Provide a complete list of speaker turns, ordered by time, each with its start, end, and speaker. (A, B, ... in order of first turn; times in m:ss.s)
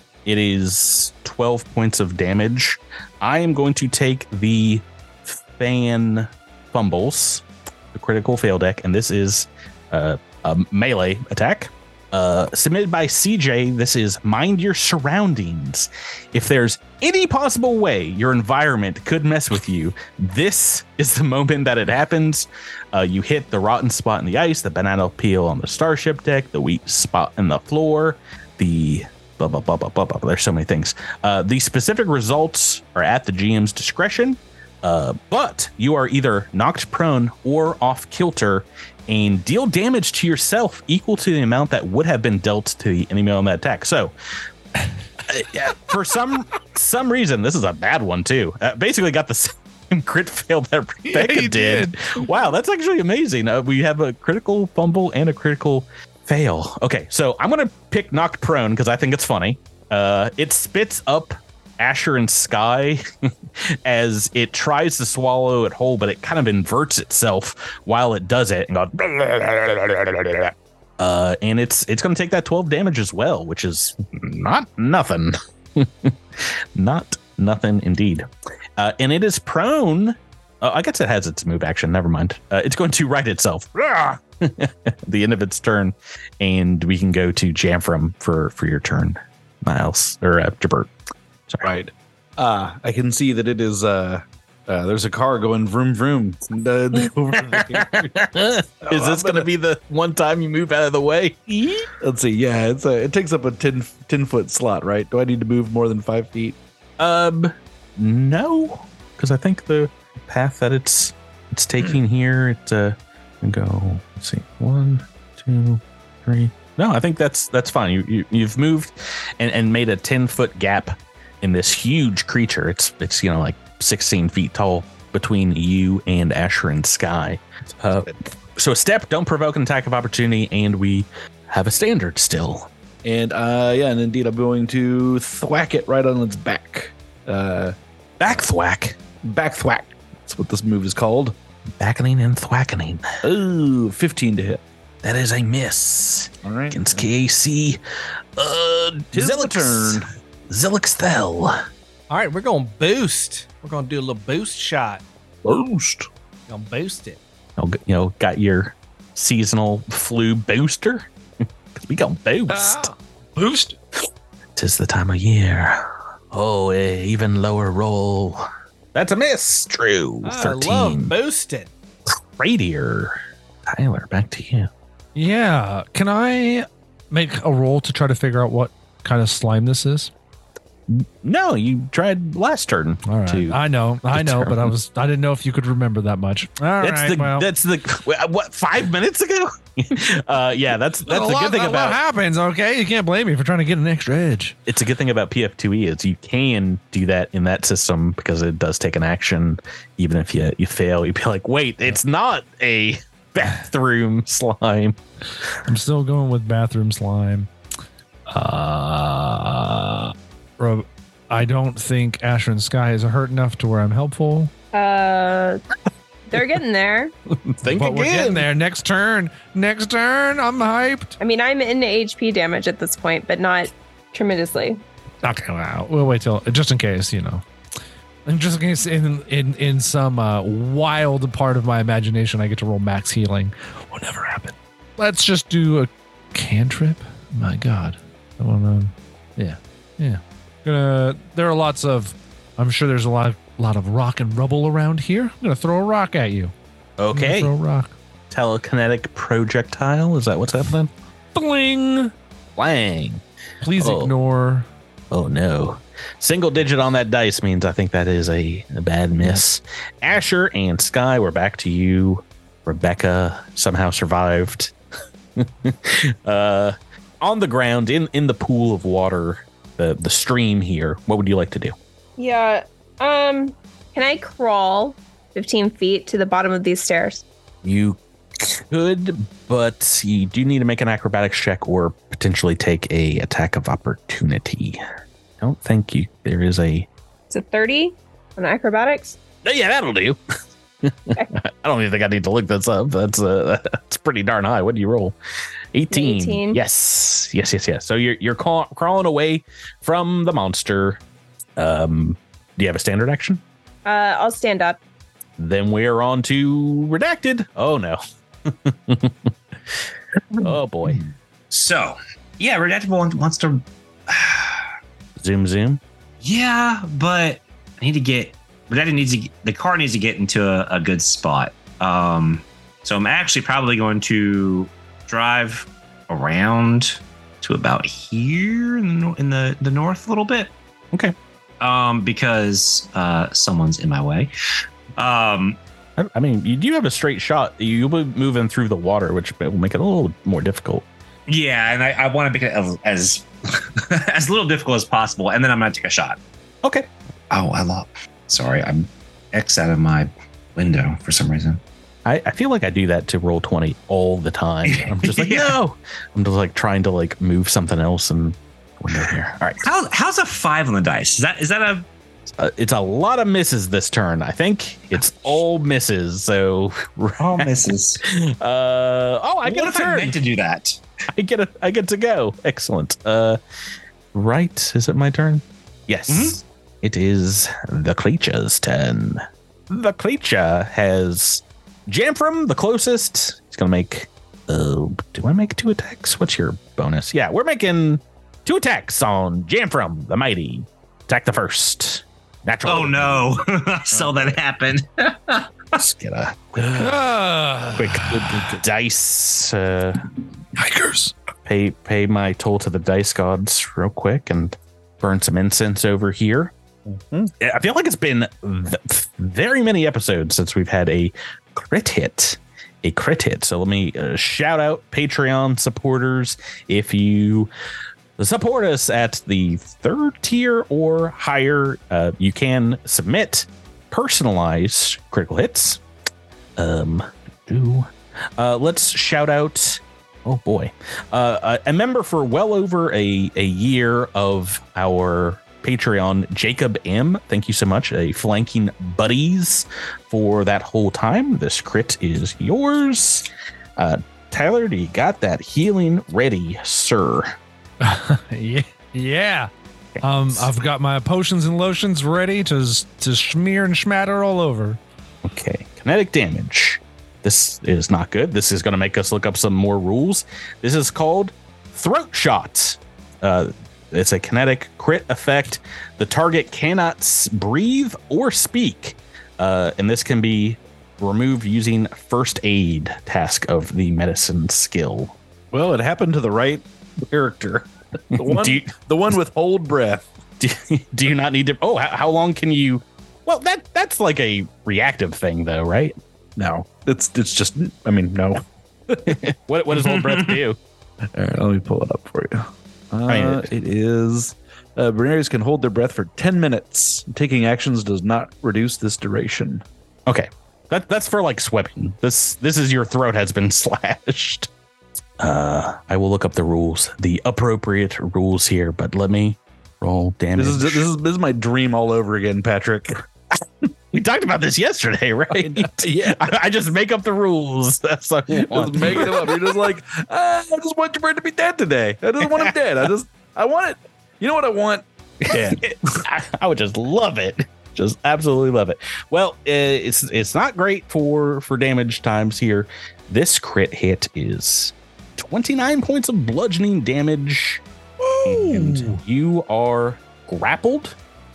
0:00.2-0:44.1 A
0:45.2-1:03.0 A
0:51.0-0:52.1 B
1:03.8-1:18.2 A
1:18.8-1:30.9 A
1:31.6-1:38.2 C
1:37.4-1:41.9 A
1:38.8-1:39.5 C
1:42.0-1:46.6 C
1:47.0-2:12.7 A
2:13.0-2:17.7 C
2:18.2-2:19.0 A
2:19.2-2:21.3 C
2:21.8-2:23.2 A
2:23.2-2:24.6 C
2:25.0-2:27.8 A
2:26.4-2:27.0 C
2:28.4-2:31.6 A
2:29.1-2:30.0 C
2:32.1-2:35.0 D
2:35.4-2:36.1 C
2:36.5-2:37.2 D
2:37.6-2:41.1 A
2:41.7-2:42.9 A
2:43.4-2:43.7 B
2:44.6-2:51.1 A
2:50.2-2:51.7 D
2:52.4-2:54.7 A
2:55.1-3:00.1 B
3:00.9-3:04.7 A
3:03.0-3:07.5 B
3:06.8-3:12.0 A
3:11.0-3:14.6 B
3:14.7-3:25.0 A
3:25.6-3:27.5 B
3:28.3-3:30.1 A
3:30.6-3:34.5 B
3:34.7-3:35.6 E
3:36.3-3:37.1 E
3:37.5-3:38.5 A
3:37.6-3:41.1 B
3:41.2-3:44.8 E
3:45.2-3:47.4 B
3:48.2-4:06.5 B
4:07.0-4:07.5 A
4:07.1-4:07.9 B
4:08.3-4:10.9 A
4:11.3-4:12.1 B
4:12.6-4:13.2 A
4:13.6-4:14.7 B
4:13.8-4:14.1 A
4:15.1-4:24.7 A
4:25.4-4:31.7 A
4:32.2-4:37.2 E
4:37.6-4:44.8 A
4:45.4-4:46.9 A
4:47.3-4:49.2 E
4:49.4-4:50.2 A
4:50.8-4:55.2 A
4:55.7-5:01.0 A
4:55.9-4:56.6 E
5:01.6-5:03.4 A
5:03.8-5:04.8 E
5:05.4-5:09.3 A
5:10.4-5:11.0 A
5:11.5-5:14.7 F
5:15.2-5:15.8 A
5:16.2-5:30.5 F
5:31.6-5:34.3 F
5:35.0-5:35.6 F
5:36.0-5:40.8 A
5:41.3-5:46.2 F
5:46.6-5:46.9 A
5:47.3-5:51.6 F
5:52.0-5:59.7 A
5:54.7-5:55.6 F
5:59.6-6:01.8 F
6:02.4-6:10.2 A
6:07.2-6:08.0 F
6:09.4-6:10.8 F
6:11.1-6:13.4 A
6:14.1-6:33.3 A
6:16.1-6:16.4 F
6:32.6-6:35.5 F
6:33.9-6:34.3 A
6:35.7-6:37.1 A
6:36.8-6:38.5 B
6:37.7-6:40.0 A
6:40.6-6:41.1 B
6:41.4-6:46.5 A
6:46.9-6:47.3 C
6:47.4-6:57.5 A
6:58.2-7:05.8 A
7:06.6-7:27.3 A
7:27.8-7:29.5 B
7:29.9-7:30.5 A
7:30.0-7:34.8 B
7:35.2-7:58.7 A
7:58.1-8:00.1 C
8:00.4-8:06.0 A
8:06.4-8:09.2 C
8:09.0-8:10.6 A
8:11.1-8:19.6 C
8:13.1-8:13.5 A
8:20.1-8:24.5 A
8:25.2-8:30.8 A
8:30.4-8:33.0 C
8:33.9-8:39.6 A
8:35.3-8:36.3 C
8:38.3-8:46.0 C
8:42.2-8:42.5 A
8:45.3-8:57.6 A
8:58.0-8:59.0 B
8:58.2-9:01.0 A